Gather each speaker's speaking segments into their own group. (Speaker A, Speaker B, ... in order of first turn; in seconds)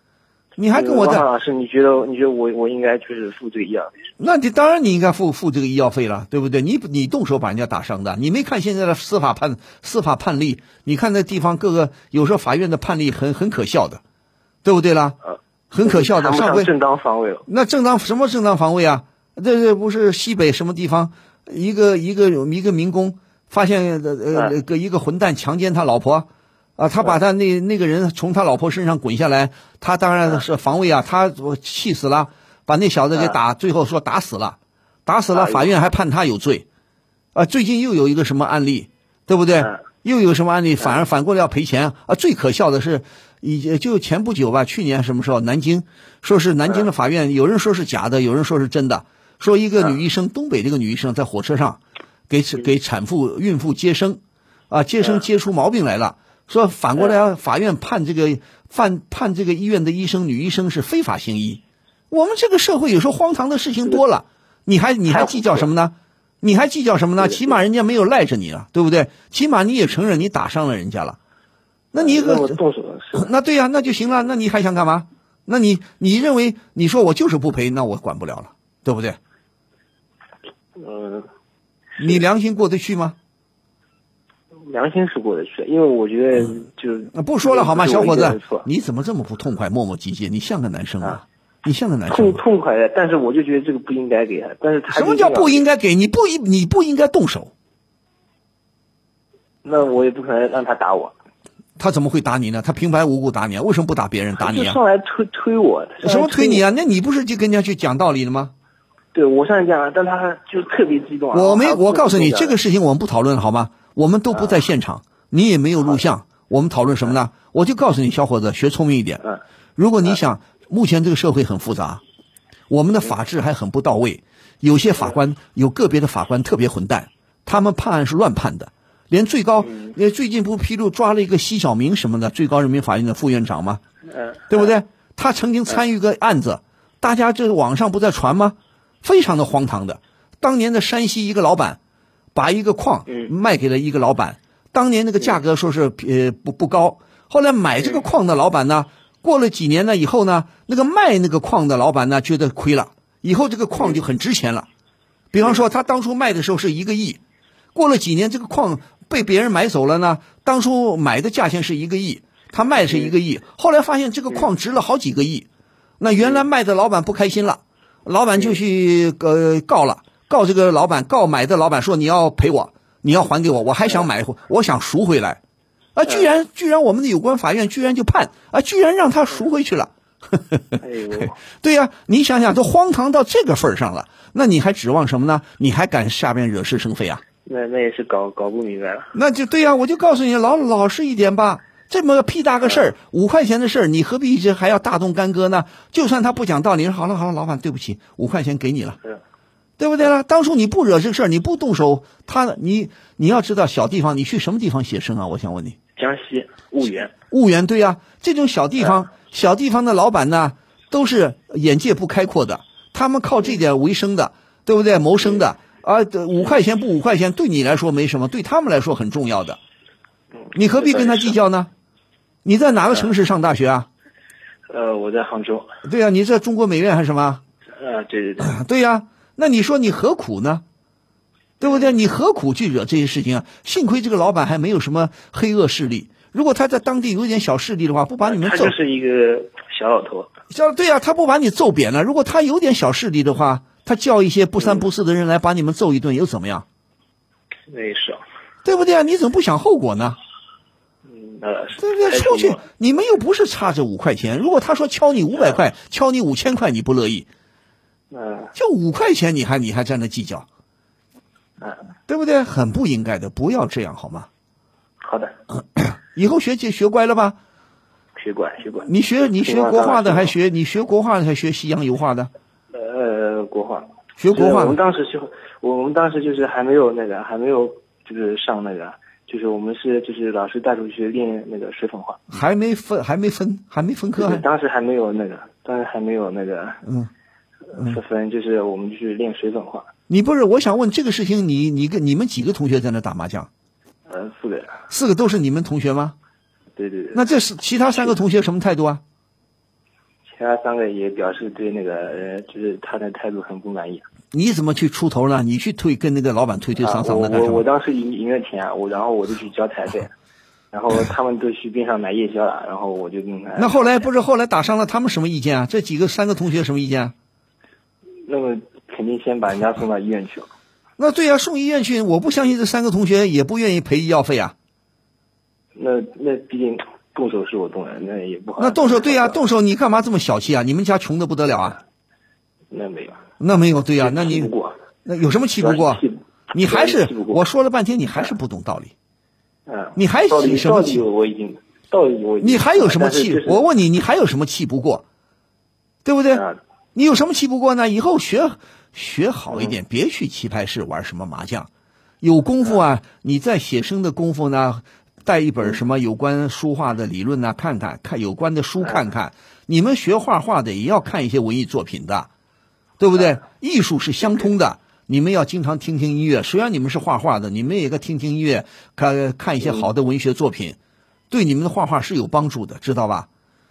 Speaker A: 0.6-1.2, 4.2-14.0, 14.6-15.2, 15.7-16.7, 17.5-36.6, 37.4-71.2, 71.9-72.6, 73.2-79.2, 82.0-83.2, 87.1-92.4, 94.9-97.5, 101.8-104.8, 106.0-108.5, 111.3-119.2, 119.8-122.0, 122.7-133.8, 134.5-141.8, 142.3-154.7, 155.3-157.2, 157.8-165.5, 166.0-175.4, 175.9-187.2, 189.1-199.0, 199.8-205.8, 207.3-219.6, 220.5-221.7, 222.4-223.9, 225.8-227.4, 228.4-230.6, 231.6-238.7, 240.5-246.7, 248.7-250.2, 251.8-257.3, 258.6-260.5, 262.1-264.3, 265.8-267.4, 268.9-272.3, 274.2-274.8, 282.3-284.4, 286.8-287.1, 290.1-293.5, 294.9-296.1, 297.1-299.0, 304.3-307.6, 313.6-317.1, 321.0-324.5, 328.6-331.8, 333.4-334.5, 335.1-338.9, 340.0-341.0, 342.4-345.0, 346.1-346.4, 346.9-351.7, 352.2-362.3, 363.0-370.8, 371.3-373.3
Speaker B: 0.7-4.0, 15.8-17.4, 35.3-35.7, 65.1-65.7, 67.2-67.5, 72.0-73.3, 80.8-81.3, 84.7-88.7, 92.1-95.6, 99.6-101.1, 104.4-106.6, 109.1-112.6, 134.1-134.7, 180.8-181.4, 187.5-189.1, 206.0-207.1, 220.4-221.4, 224.7-225.7, 227.8-228.6, 238.2-240.3, 244.6-244.9, 247.7-248.2, 251.1-252.6, 258.1-258.5, 265.0-265.3, 268.2-270.3, 272.7-282.2, 284.2-286.8, 287.7-289.9, 294.1-294.7, 296.8-297.2, 300.3-304.1, 306.8-310.1, 310.7-313.8, 318.3-320.5, 325.8-329.4, 332.7-333.2, 334.0-334.8, 335.6-337.4, 339.7-343.6, 346.3-346.6